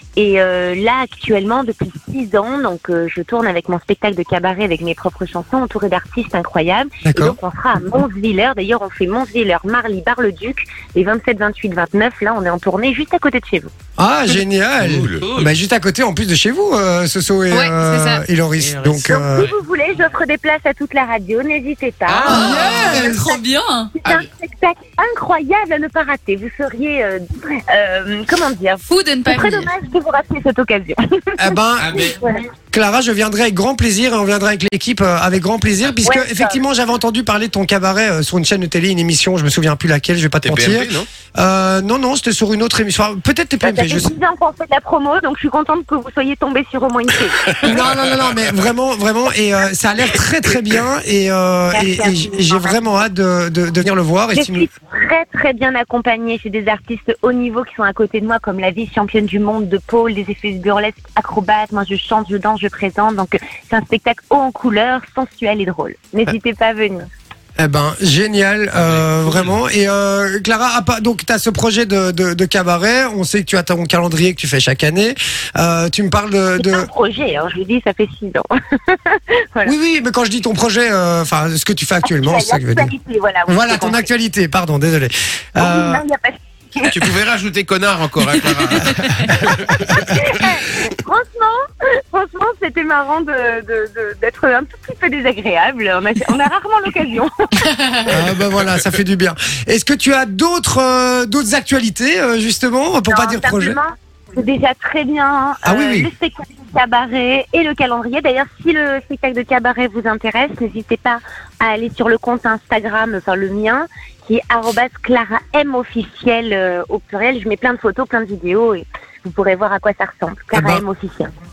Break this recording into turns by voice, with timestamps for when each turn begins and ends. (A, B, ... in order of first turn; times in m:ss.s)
0:00.2-0:13.7 A
0:07.0-0:07.4 B
0:14.0-0:19.5 B
0:14.8-0:15.2 C
0:15.2-0:15.5 D
0:17.5-0:18.2 E
0:18.6-0:19.5 D
0:19.1-0:22.4 A
0:22.1-0:22.9 D
0:22.2-0:23.9 E
0:22.2-0:23.4 B
0:24.0-0:31.6 A
0:28.9-0:29.7 E
0:31.4-0:32.0 B
0:31.8-0:32.2 D
0:32.2-0:32.4 A
0:32.7-0:44.1 B
0:36.0-0:36.6 A
0:40.4-0:41.1 C
0:43.6-0:47.9 A
0:47.6-0:54.6 B
0:51.7-0:52.8 A
0:54.3-1:07.0 A
1:07.6-1:16.9 B
1:16.6-1:19.7 A
1:19.6-1:22.9 B
1:22.0-1:24.1 A
1:23.5-1:26.0 B
1:25.6-1:27.0 A
1:26.8-1:29.9 C
1:29.7-1:31.6 A
1:32.1-1:37.3 A
1:38.0-1:43.8 B
1:43.1-2:01.3 A
1:45.6-1:46.1 B
2:00.5-2:00.8 B